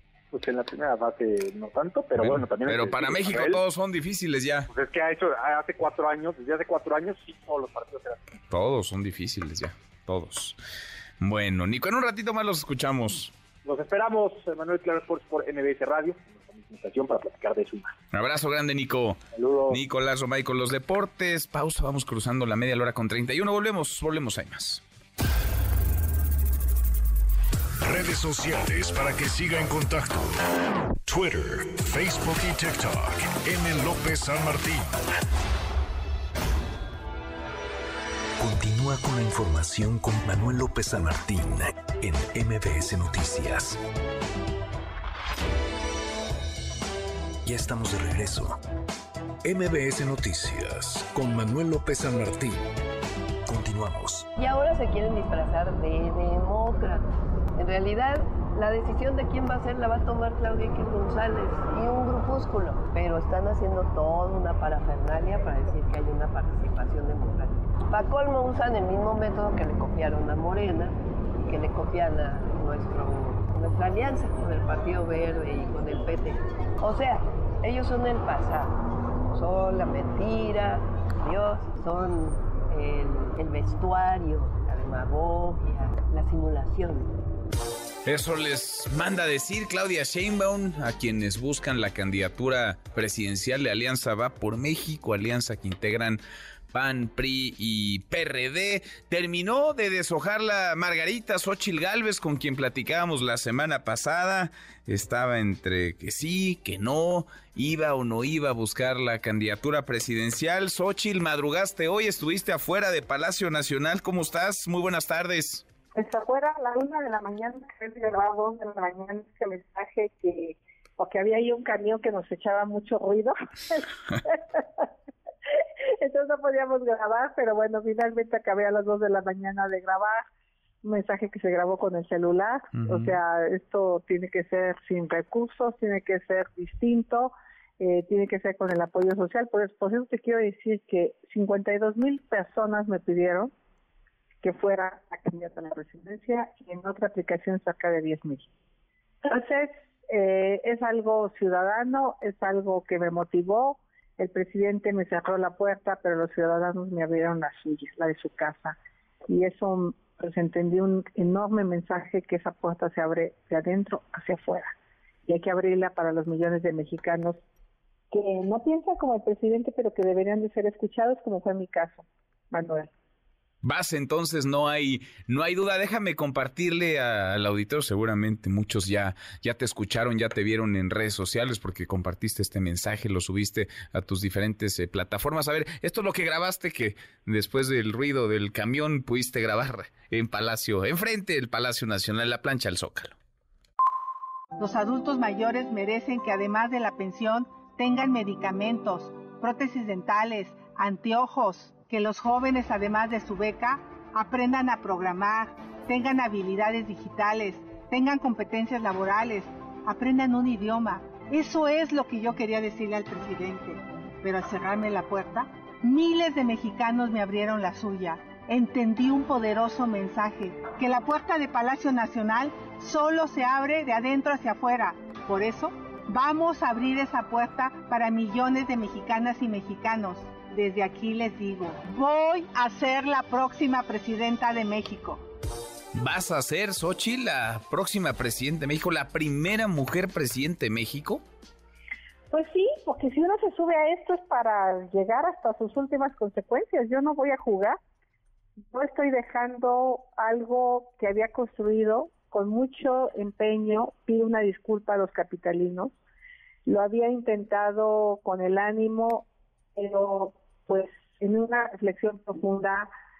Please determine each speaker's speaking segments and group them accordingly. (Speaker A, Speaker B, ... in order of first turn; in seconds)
Speaker A: 0.3-3.6, 4.7-8.2, 13.7-17.9, 19.3-19.8
Speaker B: 2.2-4.7, 8.5-10.6, 11.2-13.3, 18.1-24.8, 88.0-96.2, 96.7-115.6, 132.8-133.2, 173.6-193.2, 235.9-241.2
Speaker C: 27.8-30.4, 31.1-35.0
Speaker D: 38.4-43.8, 47.4-48.6, 49.4-52.6, 53.5-54.3
Speaker E: 54.4-78.8, 79.3-87.2
Speaker F: 115.9-124.8, 126.0-130.2, 130.8-143.5, 144.4-148.5, 149.2-158.8, 159.3-164.7, 165.3-167.4, 168.1-172.9, 242.3-247.8, 248.7-255.9, 256.7-262.9
Speaker G: 194.6-235.2